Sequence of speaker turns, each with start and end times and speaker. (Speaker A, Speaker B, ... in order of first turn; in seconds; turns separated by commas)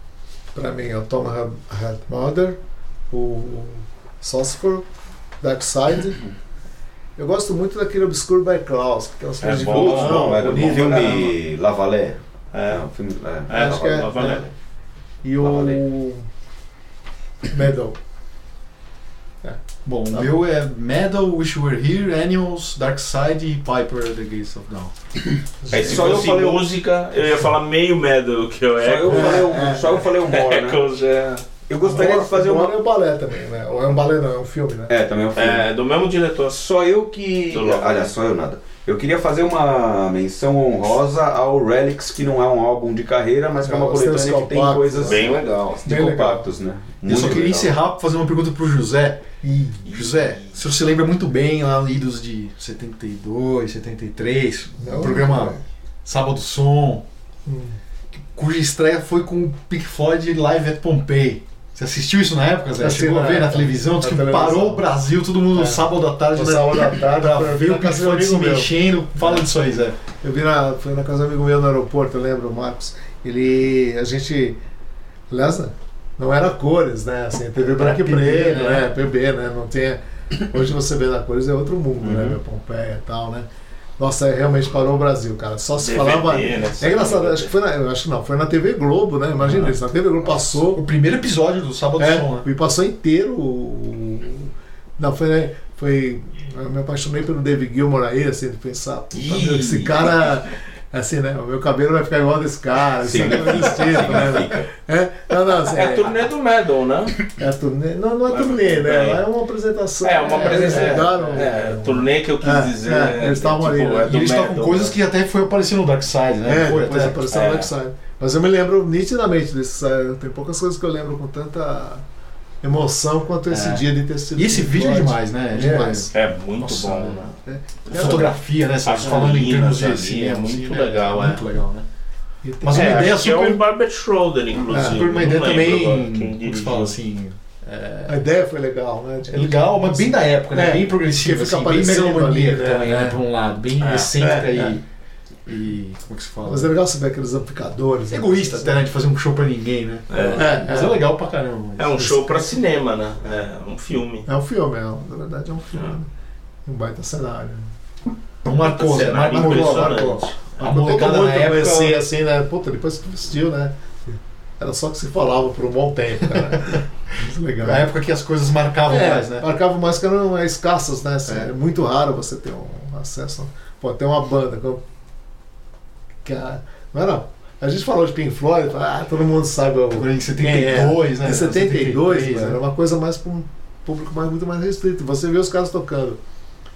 Speaker A: 0.5-2.6, Speaker A: 3.1-4.8, Speaker A: 5.4-6.2, Speaker A: 7.2-11.3, Speaker B: 9.4-11.0, Speaker C: 9.7-14.1, Speaker B: 12.5-12.8, Speaker B: 13.5-14.5, Speaker A: 13.5-14.5, Speaker A: 15.2-16.2, Speaker B: 15.4-15.8, Speaker A: 17.5-17.9, Speaker D: 19.8-24.9, Speaker A: 20.1-20.4, Speaker A: 25.6-26.2, Speaker C: 25.7-26.7, Speaker B: 25.7-29.5, Speaker C: 28.8-30.8, Speaker A: 29.1-29.9, Speaker B: 30.1-31.4, Speaker C: 31.7-32.7, Speaker A: 31.8-34.9, Speaker C: 34.9-35.6, Speaker B: 35.3-36.6, Speaker C: 36.5-47.7, Speaker B: 37.5-38.1, Speaker A: 43.6-45.2, Speaker B: 45.0-45.8, Speaker A: 45.8-46.5, Speaker D: 47.0-49.2, Speaker A: 49.4-49.9, Speaker D: 49.9-57.0, Speaker B: 49.9-50.5, Speaker A: 54.8-55.6, Speaker A: 57.5-57.8, Speaker D: 58.3-70.0, Speaker A: 62.8-64.8, Speaker A: 65.5-69.5, Speaker A: 70.2-74.6, Speaker A: 75.3-83.5, Speaker D: 77.7-78.9, Speaker C: 82.0-82.4, Speaker A: 84.0-90.8, Speaker B: 85.8-87.5, Speaker D: 89.4-92.5, Speaker A: 92.0-106.1, Speaker B: 99.1-100.1, Speaker C: 103.0-104.6, Speaker B: 105.7-107.2, Speaker A: 107.4-114.2, Speaker B: 108.3-109.2, Speaker B: 110.0-114.9, Speaker D: 110.3-111.5, Speaker D: 114.0-117.2, Speaker A: 116.4-122.0, Speaker B: 117.3-117.7, Speaker A: 122.6-126.1, Speaker D: 123.5-127.3, Speaker B: 126.1-127.3, Speaker A: 127.4-128.4, Speaker B: 127.8-131.4, Speaker D: 127.9-131.8, Speaker A: 132.4-133.2, Speaker D: 132.6-133.6, Speaker B: 132.7-137.0, Speaker D: 134.7-138.2, Speaker A: 134.7-135.0, Speaker A: 138.1-143.2, Speaker D: 139.3-144.8, Speaker B: 143.8-144.1, Speaker A: 144.2-144.8, Speaker D: 145.4-146.7, Speaker A: 146.4-148.8, Speaker D: 148.1-152.4, Speaker B: 150.1-150.6, Speaker A: 150.3-151.0, Speaker B: 151.8-154.2, Speaker A: 154.3-156.1, Speaker A: 156.7-157.7, Speaker D: 158.4-162.0, Speaker B: 158.5-160.6, Speaker A: 159.2-167.9, Speaker D: 167.6-169.4, Speaker A: 168.9-174.8, Speaker A: 176.2-186.2, Speaker D: 179.9-182.6